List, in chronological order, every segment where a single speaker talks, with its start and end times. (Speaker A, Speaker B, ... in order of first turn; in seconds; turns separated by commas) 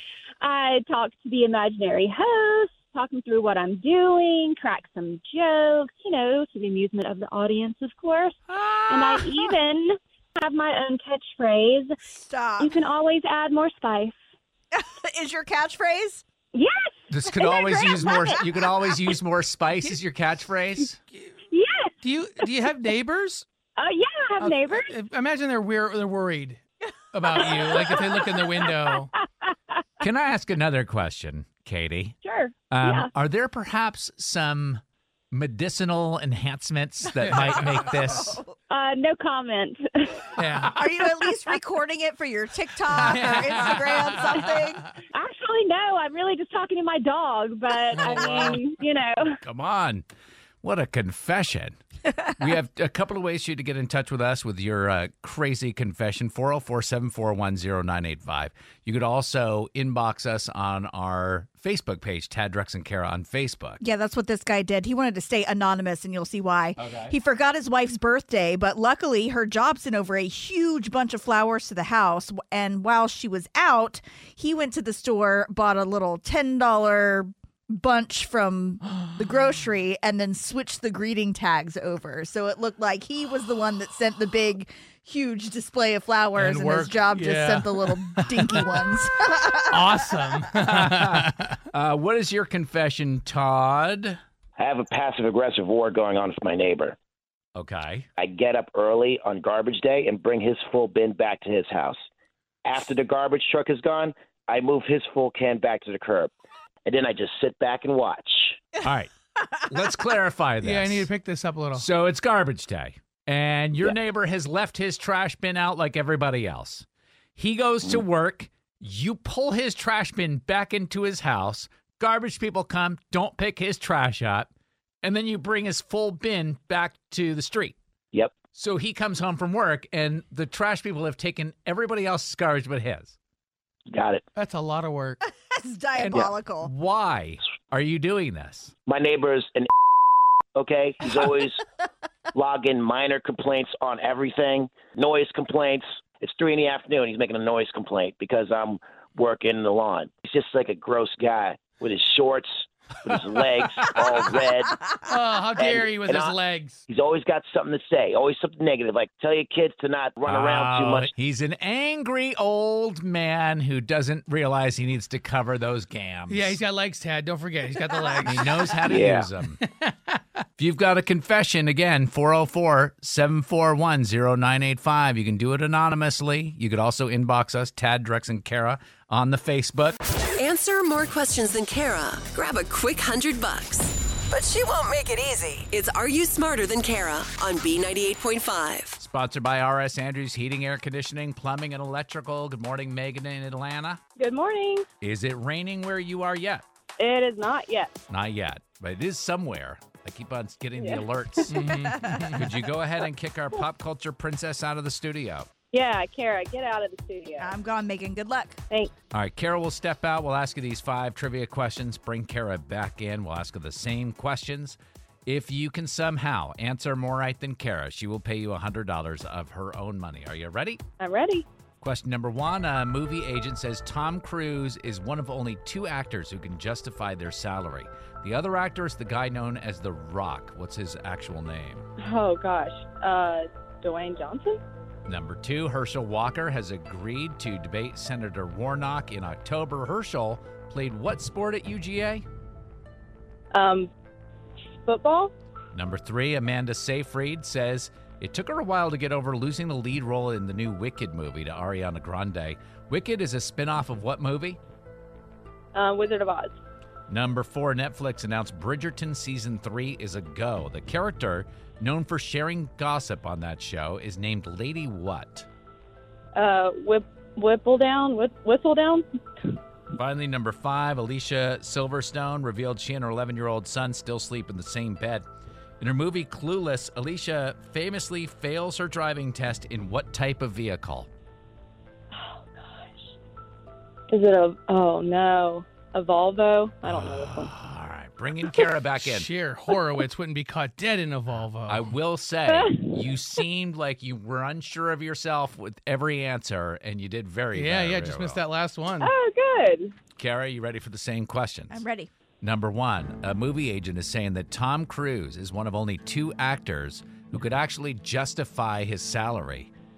Speaker A: 0.4-11.9, Speaker B: 8.5-9.2, Speaker C: 12.1-12.7, Speaker A: 12.6-14.2, Speaker C: 14.7-16.2, Speaker A: 16.5-18.4, Speaker B: 17.1-21.0, Speaker A: 21.5-22.0, Speaker D: 22.0-23.4, Speaker A: 23.8-24.9, Speaker D: 24.4-26.6, Speaker D: 27.1-29.1, Speaker A: 27.4-29.5, Speaker B: 30.0-32.2, Speaker A: 32.2-33.1, Speaker B: 32.7-38.4, Speaker D: 37.2-37.7, Speaker C: 37.9-38.5, Speaker A: 38.7-40.3, Speaker D: 40.4-40.8, Speaker C: 40.7-44.9, Speaker D: 42.9-44.3, Speaker A: 45.1-49.4, Speaker D: 47.9-48.6, Speaker B: 49.4-50.0, Speaker B: 50.6-51.8, Speaker B: 52.4-63.8, Speaker C: 63.8-90.1, Speaker B: 66.8-67.1, Speaker D: 78.9-79.1, Speaker D: 86.3-88.7, Speaker D: 89.7-91.6, Speaker B: 90.6-94.2, Speaker E: 94.6-97.0, Speaker B: 97.5-98.1, Speaker E: 98.2-102.0, Speaker E: 102.6-106.3, Speaker E: 106.8-108.6, Speaker B: 108.8-109.1, Speaker B: 109.6-111.1, Speaker D: 110.6-111.8, Speaker B: 111.7-124.5, Speaker B: 125.0-127.8, Speaker B: 128.5-133.2, Speaker E: 133.9-134.2, Speaker D: 134.3-135.2, Speaker C: 135.4-136.7, Speaker B: 135.9-138.7, Speaker E: 138.8-139.7, Speaker E: 140.5-141.6, Speaker E: 142.3-154.8, Speaker D: 155.0-156.8, Speaker E: 155.6-156.3, Speaker E: 156.9-161.1, Speaker B: 160.2-166.6, Speaker D: 166.3-168.8, Speaker B: 168.2-169.6, Speaker E: 168.8-169.3, Speaker D: 169.6-170.2, Speaker B: 170.6-180.0, Speaker F: 180.4-189.0, Speaker B: 189.0-194.0, Speaker G: 194.2-194.8, Speaker B: 195.0-196.6, Speaker G: 197.0-197.9, Speaker B: 198.1-201.7, Speaker D: 201.5-202.5, Speaker C: 201.8-202.3, Speaker B: 202.3-205.5, Speaker G: 205.7-207.5, Speaker C: 207.4-208.6, Speaker B: 209.1-220.8, Speaker G: 221.0-221.4, Speaker B: 221.8-231.8, Speaker G: 232.0-234.6, Speaker B: 235.1-242.2, Speaker G: 243.5-243.9, Speaker G: 244.8-245.3, Speaker B: 245.7-254.6, Speaker G: 255.7-256.5, Speaker B: 257.1-265.5, Speaker G: 266.3-269.0, Speaker B: 269.9-275.2, Speaker B: 275.8-281.1, Speaker G: 284.1-286.9, Speaker B: 286.8-289.3, Speaker D: 289.0-291.9, Speaker B: 291.7-298.4, Speaker D: 297.5-299.1, Speaker G: 299.0-299.9, Speaker B: 300.2-301.8, Speaker C: 301.7-302.1, Speaker B: 302.4-309.7